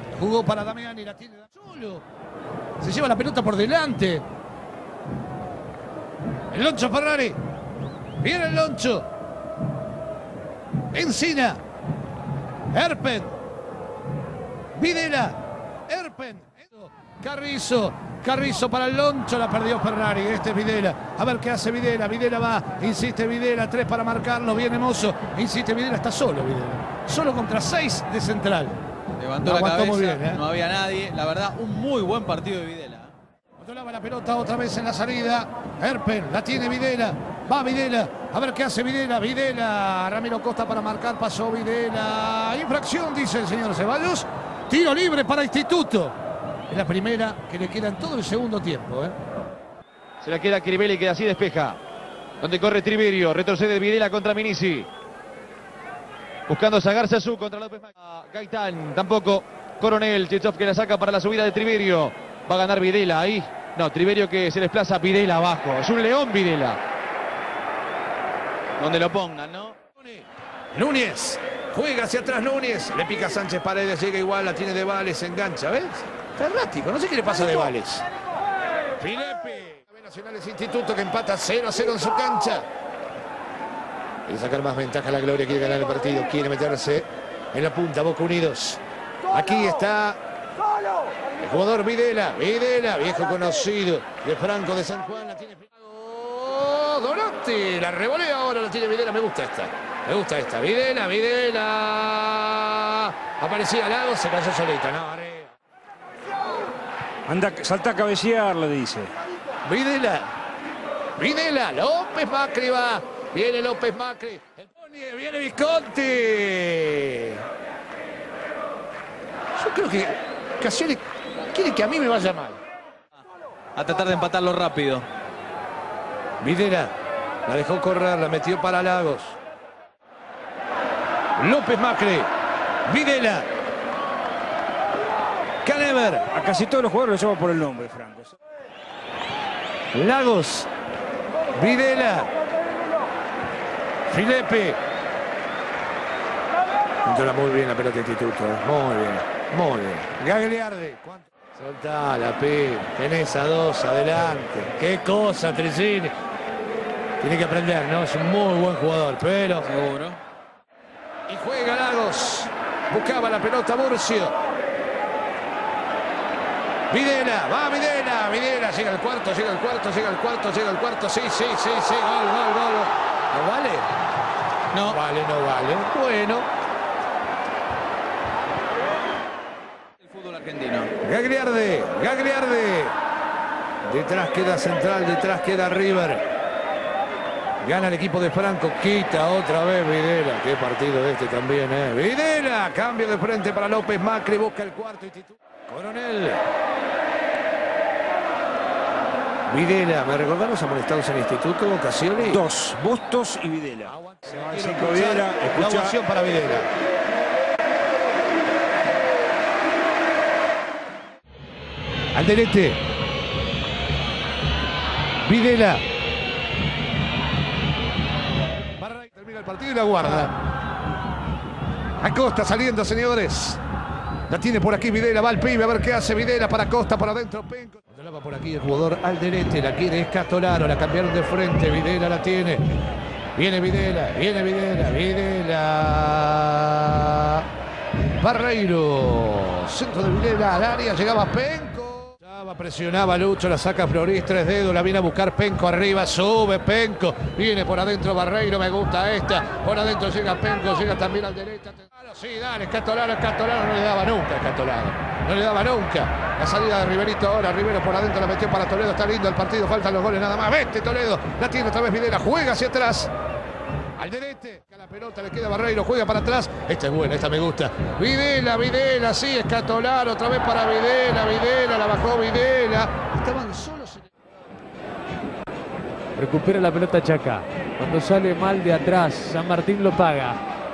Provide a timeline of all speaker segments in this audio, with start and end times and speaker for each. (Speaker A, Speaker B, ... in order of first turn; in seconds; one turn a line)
Speaker A: 0.1-2.0
Speaker A: 2.8-4.2
Speaker A: 6.5-7.4
Speaker A: 8.2-9.1
Speaker A: 10.9-11.6
Speaker A: 12.7-13.4
Speaker A: 14.8-28.8
Speaker B: 29.2-33.1
Speaker A: 29.4-30.4
Speaker A: 33.6-46.2
Speaker A: 46.7-49.2
Speaker C: 50.2-51.8
Speaker C: 52.4-54.9
Speaker C: 56.5-66.8
Speaker B: 68.8-69.7
Speaker C: 69.0-69.7
Speaker A: 70.0-78.0
Speaker A: 79.0-82.7
Speaker A: 84.3-90.2
Speaker A: 91.4-105.5
Speaker D: 107.3-109.1
Speaker A: 109.7-110.3
Speaker A: 111.2-117.4
Speaker A: 119.6-122.6
Speaker B: 123.8-125.1
Speaker A: 126.4-126.9
Speaker A: 127.5-129.4
Speaker A: 131.4-132.3
Speaker A: 132.9-133.5
Speaker A: 135.6-136.3
Speaker D: 136.3-138.3
Speaker A: 139.9-140.7
Speaker A: 141.6-142.3
Speaker A: 144.1-144.8
Speaker A: 147.1-156.1
Speaker A: 157.2-159.7
Speaker B: 159.7-160.2
Speaker A: 161.3-164.4
Speaker A: 166.9-173.9
Speaker A: 174.8-176.5
Speaker B: 180.0-180.9
Speaker A: 181.0-182.9
Speaker A: 183.8-186.2
Speaker A: 187.6-196.4
Speaker A: 199.5-202.4
Speaker D: 202.2-205.9
Speaker A: 203.8-206.7
Speaker A: 212.1-212.8
Speaker A: 215.2-215.8
Speaker A: 218.8-220.3
Speaker A: 222.0-223.6
Speaker A: 224.3-232.6
Speaker A: 233.4-237.5
Speaker A: 238.2-263.1
Speaker A: 264.0-274.1
Speaker E: 276.2-280.4